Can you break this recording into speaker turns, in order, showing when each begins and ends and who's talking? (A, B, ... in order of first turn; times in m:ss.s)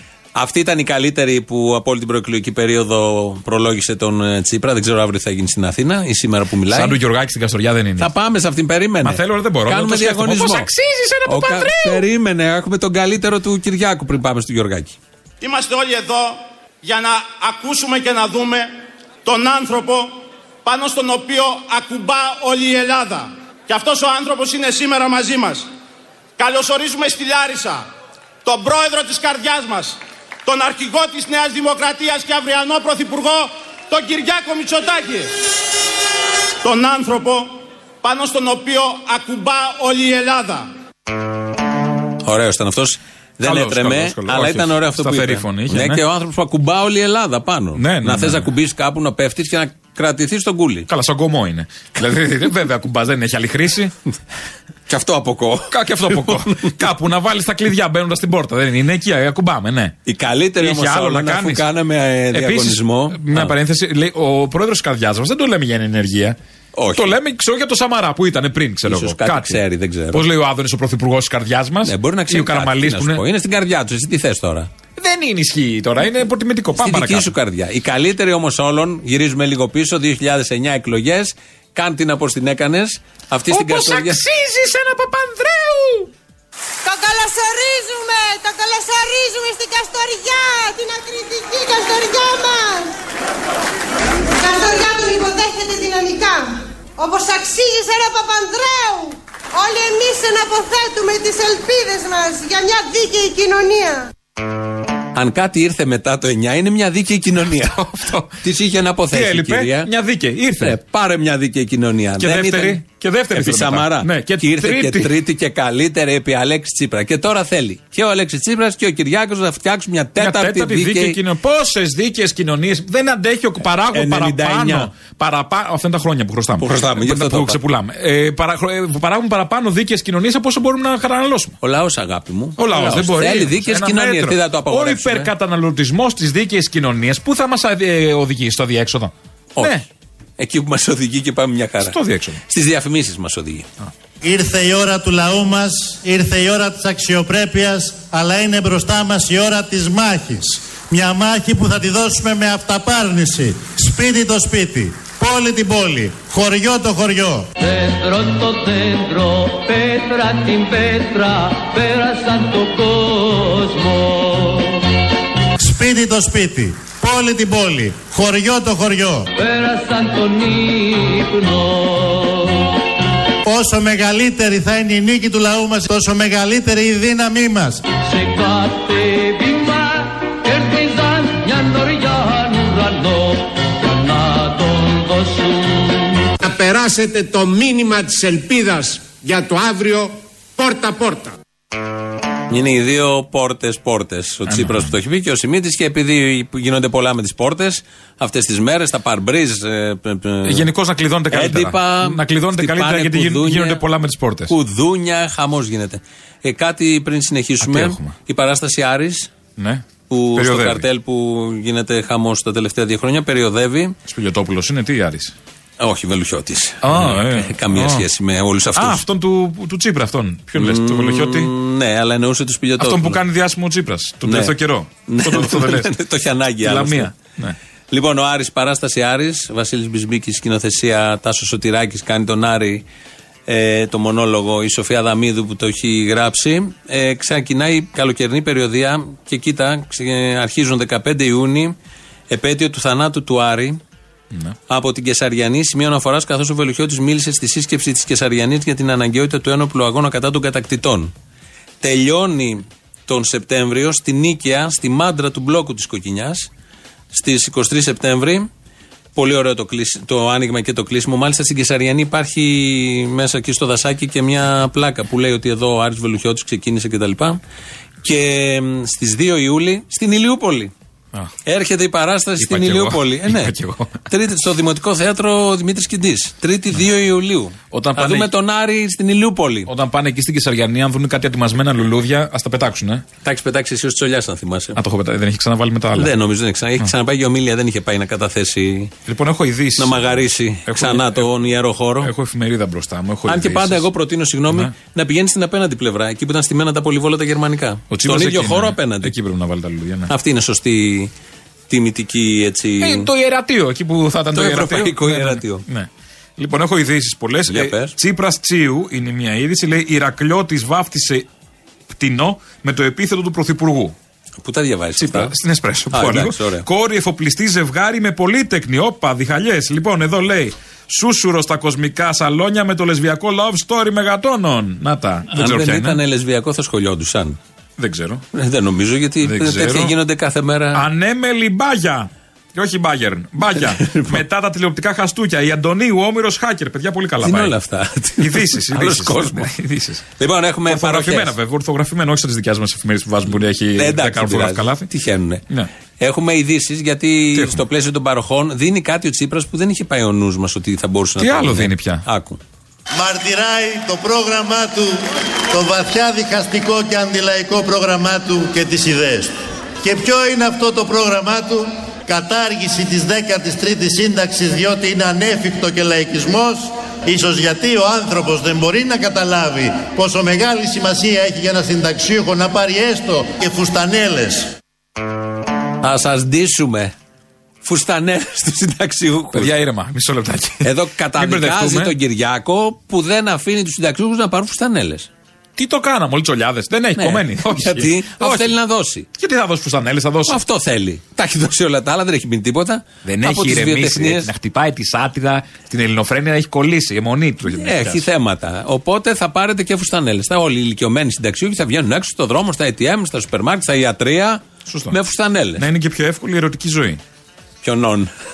0:00.4-0:07.0 A
0:06.7-0:08.1 B
0:08.0-0:10.7 A
0:09.0-0:12.0 B
0:11.2-0:15.0 A
0:15.4-0:18.7 C
0:19.2-0:25.7 C
0:26.4-0:27.8 C
0:28.4-0:35.3 C
0:36.6-0:37.5 C
0:38.0-0:40.7 C
0:42.2-0:50.9 A
0:43.4-0:46.0 B
0:47.8-0:48.5 B
0:50.9-0:53.9 B
0:54.9-0:56.7 A
0:55.7-0:59.9 B
1:00.0-1:03.5 A
1:00.6-1:01.6 B
1:02.3-1:06.4 B
1:06.7-1:07.1 A
1:07.0-1:13.2 B
1:08.9-1:10.2 A
1:11.8-1:14.7 A
1:15.0-1:17.3 B
1:16.8-1:24.2 A
1:23.5-1:26.1 B
1:26.8-1:32.9 D
1:34.4-1:44.1 D
1:45.1-1:47.8 A
1:47.5-1:48.3 B
1:48.4-1:49.9 A
1:49.1-1:50.8 B
1:50.6-1:52.8 A
1:52.2-1:55.1 B
1:53.3-2:01.2 A
2:00.2-2:11.6 B
2:03.9-2:04.9 A
2:06.6-2:07.6 A
2:11.6-2:15.3 A
2:12.6-2:19.8 B
2:19.6-2:19.8 A
2:20.4-2:23.7 A
2:21.8-2:22.4 B
2:24.2-2:37.5 E
2:37.6-2:44.8 F
2:45.6-2:49.3 E
2:49.4-2:52.7 F
2:53.4-2:57.8 E
2:58.0-3:06.3 F
3:06.4-3:11.3 G
3:12.5-3:20.7 A
3:14.5-3:14.9 B
3:20.4-3:24.5 B
3:21.3-3:23.8 A
3:24.5-3:29.3 A
3:27.6-3:28.1 B
3:29.6-3:30.8 B
3:30.1-3:33.9 A
3:34.0-3:35.3 B
3:35.8-3:39.0 A
3:36.8-3:38.0 B
3:38.7-3:41.5 B
3:40.5-3:43.2 A
3:42.8-3:45.9 B
3:44.2-3:44.5 A
3:45.1-3:47.1 A
3:46.6-3:47.6 B
3:47.9-3:52.8 A
3:53.5-4:01.7 A
4:02.3-4:03.8 A
4:04.7-4:11.1 A
4:11.8-4:16.5 A
4:17.1-4:18.5 A
4:19.1-4:27.4 A
4:28.0-4:30.7 A
4:31.4-4:33.5 A
4:32.4-4:34.0 B
4:34.1-4:39.7 A
4:37.7-4:38.3 B
4:39.7-4:43.0 B
4:43.2-4:44.8 A
4:44.7-4:46.1 B
4:46.0-4:48.9 A
4:49.0-4:51.3 B
4:49.8-4:52.1 A
4:52.0-4:53.8 B
4:53.2-4:59.1 A
4:57.9-5:00.1 B
5:00.1-5:01.1 A
5:01.7-5:03.1 A
5:02.8-5:11.3 B
5:04.3-5:05.6 A
5:07.5-5:07.9 A
5:11.9-5:14.0 B
5:14.4-5:15.3 A
5:15.0-5:26.0 B
5:15.9-5:16.6 A
5:25.3-5:27.4 A
5:27.8-5:28.2 B
5:28.3-5:30.8 A
5:29.2-5:29.9 B
5:30.7-5:37.5 B
5:33.5-5:34.2 A
5:37.2-5:39.5 A
5:38.2-5:40.0 B
5:40.2-5:41.3 A
5:40.6-5:44.9 B
5:43.7-5:45.4 A
5:46.0-5:52.4 A
5:47.3-5:47.6 B
5:51.2-5:52.0 B
5:52.9-6:14.5 E
6:15.8-6:16.9 A
6:17.6-6:19.5 A
6:19.3-6:21.9 B
6:20.6-6:25.1 A
6:25.6-6:28.5 B
6:27.0-6:29.1 A
6:29.1-6:30.4 B
6:30.3-6:34.3 A
6:33.0-6:38.1 B
6:37.5-6:45.6 A
6:44.7-6:45.0 B
6:45.6-6:47.0 B
6:47.6-6:48.1 A